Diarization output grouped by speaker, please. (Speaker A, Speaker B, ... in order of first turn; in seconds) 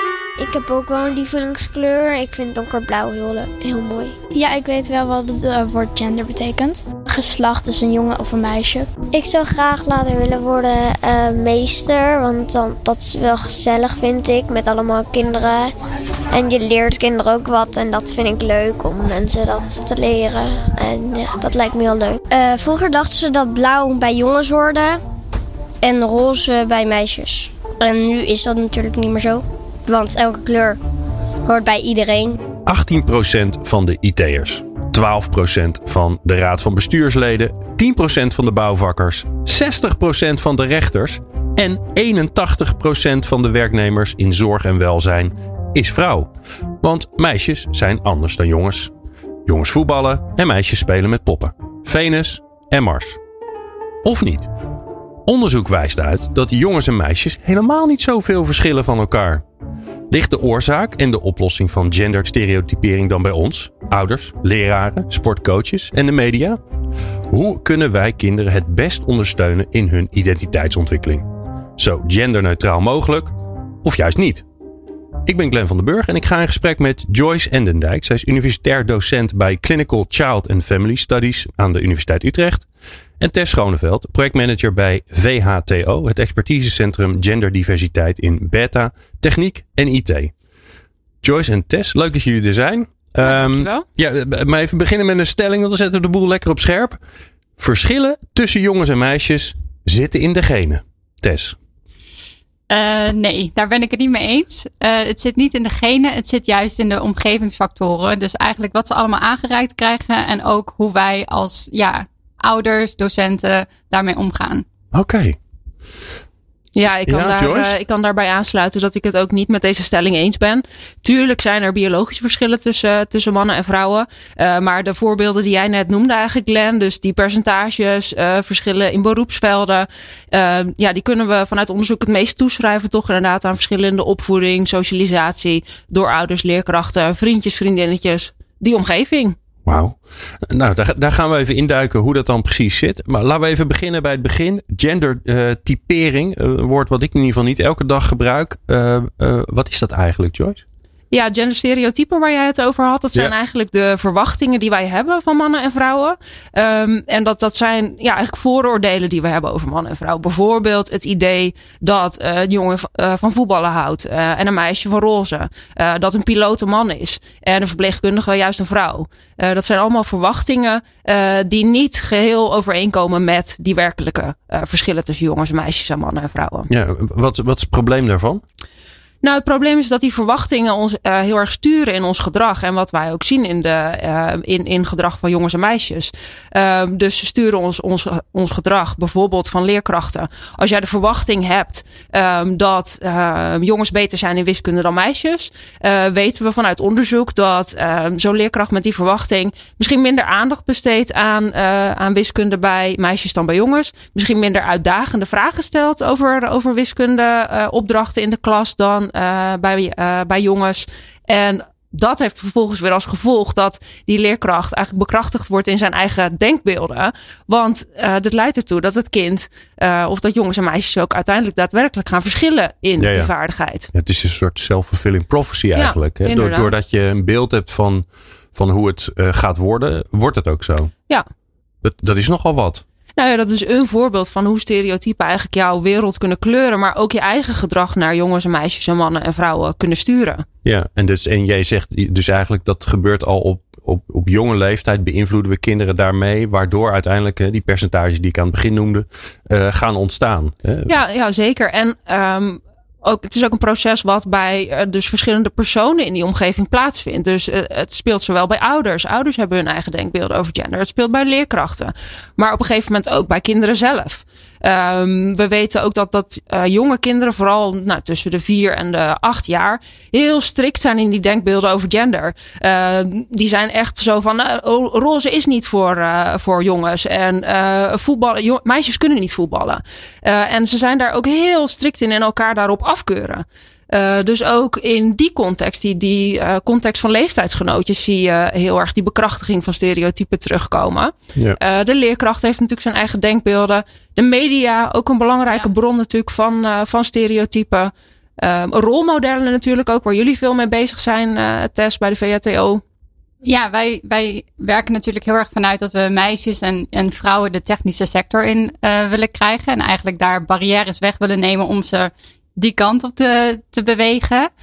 Speaker A: 0.4-4.2, 9.1-15.7, 16.3-22.2
Speaker B: 4.3-8.9
Speaker C: 22.3-25.0, 25.8-30.8, 31.5-32.4
Speaker D: 32.7-46.3, 46.8-48.9, 49.5-53.2, 54.0-54.5, 55.2-59.5, 60.1-66.6, 67.3-71.3, 71.8-74.5, 75.3-82.7, 83.2-90.3, 91.2-97.0, 97.6-101.6, 114.9-115.4, 117.1-117.8, 139.7-150.6, 176.7-178.4, 223.0-223.3, 223.9-230.9, 231.8-232.8, 240.6-250.9
Speaker E: 93.2-93.8, 116.8-139.4, 151.1-176.7, 179.2-223.9, 225.8-226.7, 233.2-240.5, 250.9-302.8
Speaker F: 102.7-114.7, 303.4-314.5